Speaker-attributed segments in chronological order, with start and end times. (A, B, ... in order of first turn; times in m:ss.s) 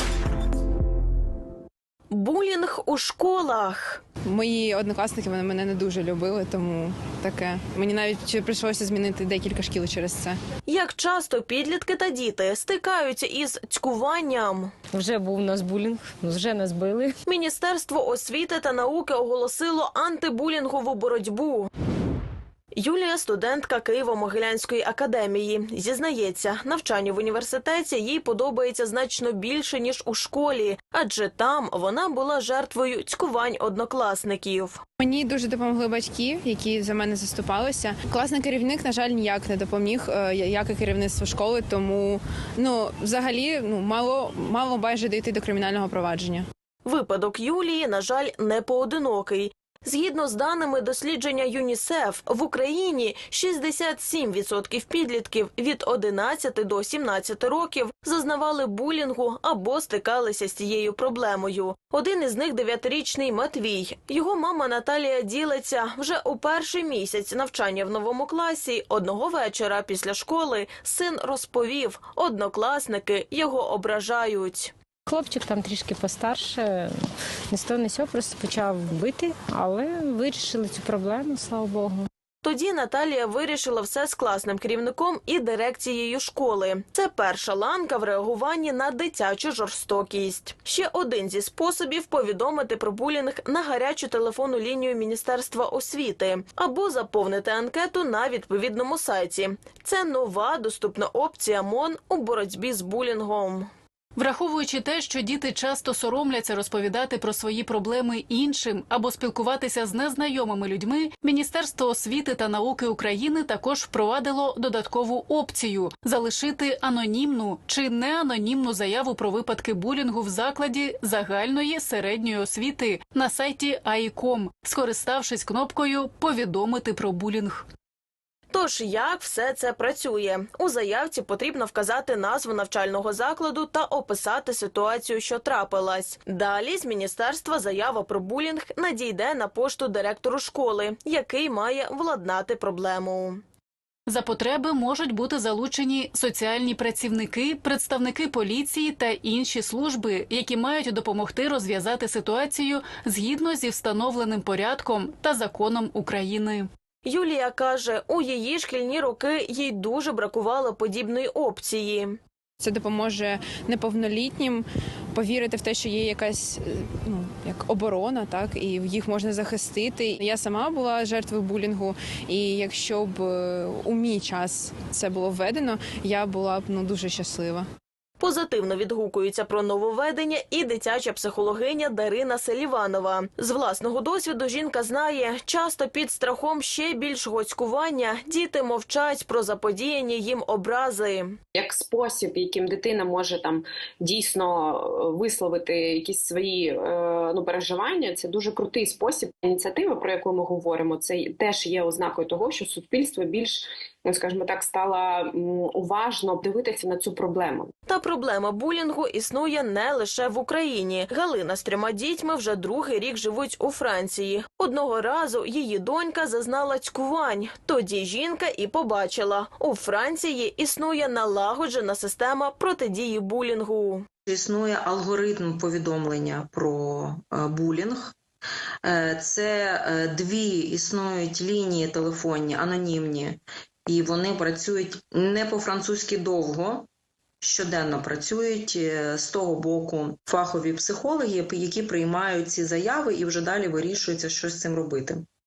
0:02.1-0:04.0 A
0:04.3-0:10.4 B
0:10.7-0:14.7 A
0:14.9-0:17.2 C
0:17.3-0:21.7 A
0:22.8-0:34.8 A
0:35.0-0:46.4 B
0:46.8-1:14.7 A
1:15.1-1:22.1 C
1:22.4-1:43.7 A
1:44.2-2:07.6 D
2:08.5-2:23.4 A
2:24.1-2:36.7 D
2:37.0-2:42.2 A
2:42.6-2:57.6 B
2:58.2-3:11.3 A
3:11.5-3:27.7 E
3:27.9-3:44.0 A
3:44.3-3:48.2 F
3:48.8-3:56.9 F
3:57.4-4:05.2 F